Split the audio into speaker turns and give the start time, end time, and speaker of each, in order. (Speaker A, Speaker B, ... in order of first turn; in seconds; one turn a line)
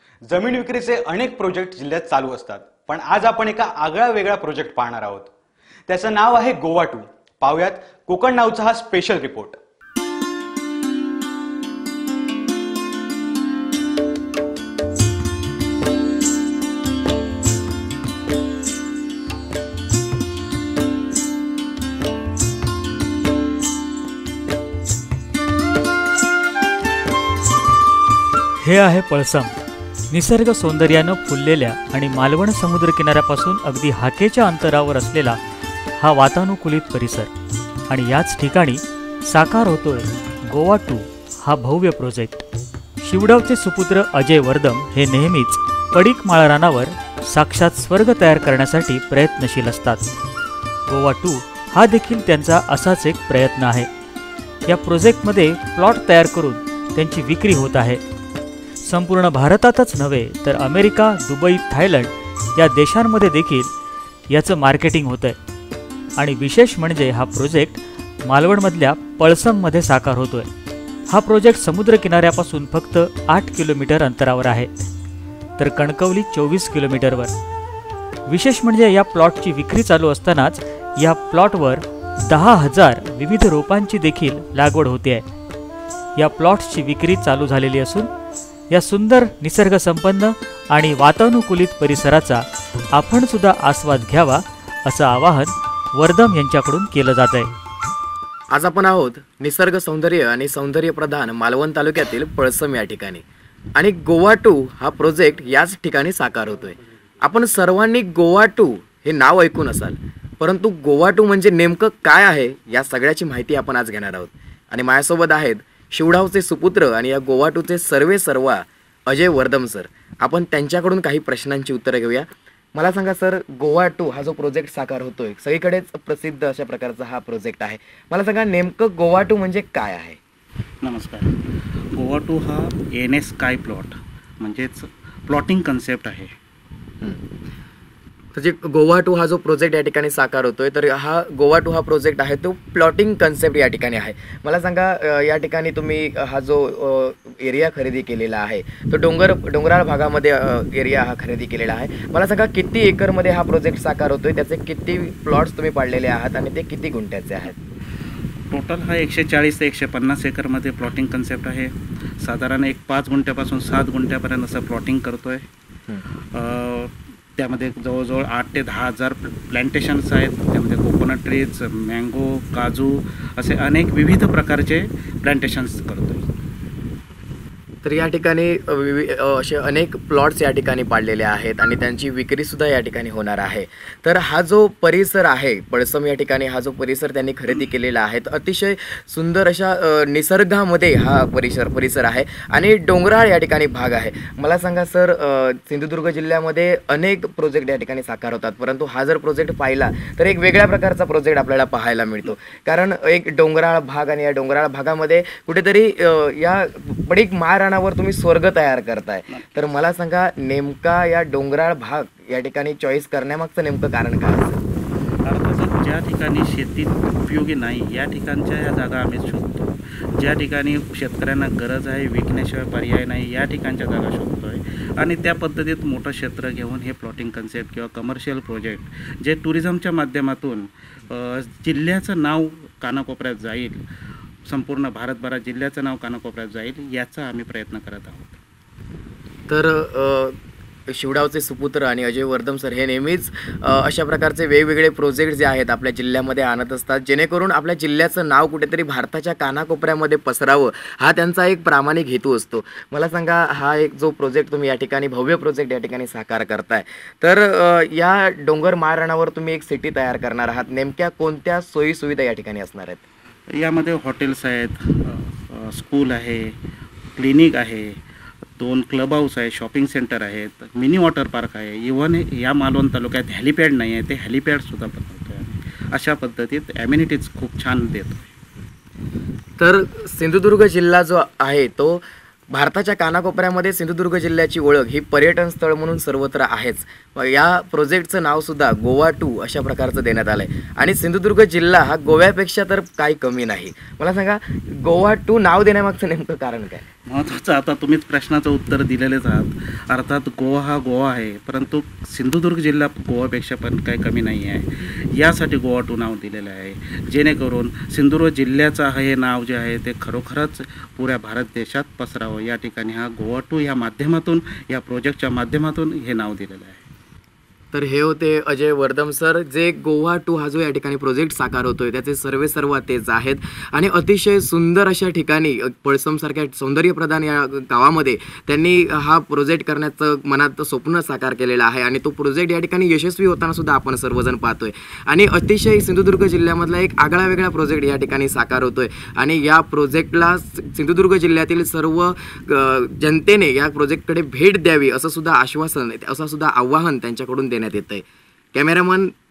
Speaker A: 0.2-5.3
Speaker A: 5.9-9.6
Speaker B: 28.6-29.5
Speaker B: 30.1-35.4
Speaker B: 36.0-37.3
Speaker B: 37.9-42.4
Speaker B: 43.0-50.1
Speaker B: 50.9-53.9
Speaker B: 54.6-58.0
Speaker B: 58.8-63.7
Speaker B: 64.3-65.4
Speaker B: 66.2-70.5
Speaker B: 71.1-74.8
Speaker B: 75.6-77.3
Speaker B: 78.3-85.2
Speaker B: 86.2-88.1
Speaker B: 88.7-97.5
Speaker C: 98.5-103.2
Speaker C: 103.8-130.2
Speaker D: 130.8-131.3
Speaker D: 131.9-136.3
Speaker C: 138.3-157.6
Speaker D: 158.5-165.4
Speaker D: 166.3-176.3
Speaker C: 177.8-214.6
Speaker D: 215.2-233.8
Speaker D: 234.4-238.4
Speaker C: 239.5-240.3
Speaker C: 240.9-263.0
Speaker D: 263.6-266.5
Speaker D: 267.1-268.0
Speaker D: 268.6-278.3
Speaker C: 279.6-296.8
Speaker D: 297.1-316.9
Speaker C: 317.7-349.1